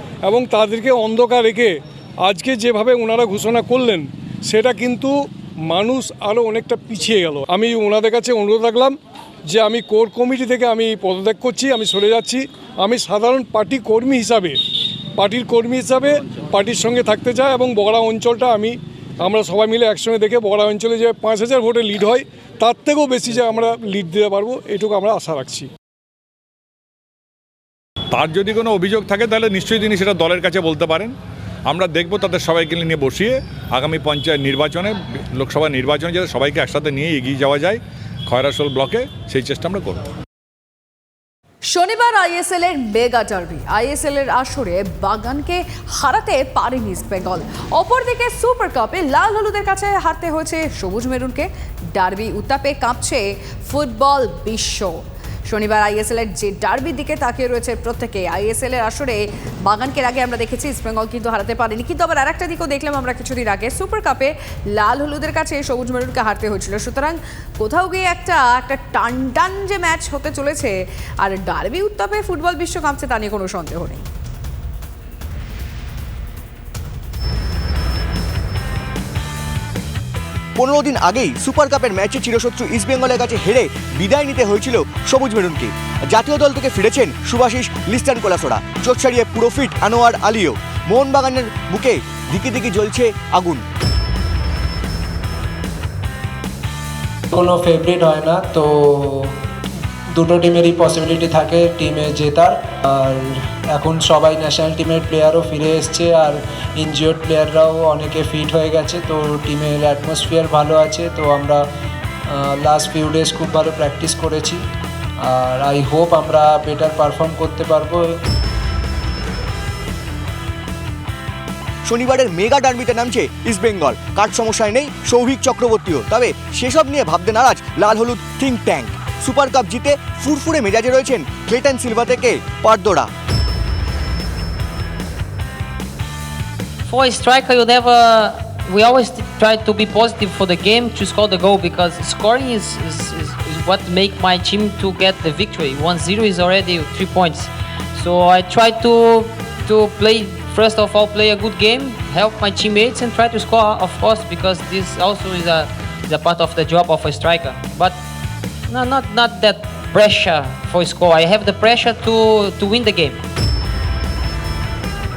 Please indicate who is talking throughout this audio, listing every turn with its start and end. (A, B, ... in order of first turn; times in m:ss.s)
0:00.2-0:05.2 A
0:05.7-0:09.0 A
0:09.5-0:14.6 A
0:15.2-0:25.7 A
0:28.1-0:31.1 B
0:31.7-0:40.0 B
0:41.7-1:14.0 C
1:20.6-1:33.6 D
1:37.3-1:39.4 E
1:40.1-1:51.7 E
1:52.3-1:54.6 E
1:55.2-1:58.1 E
2:01.8-2:13.1 D
2:16.9-2:38.0 F
2:38.7-2:43.2 F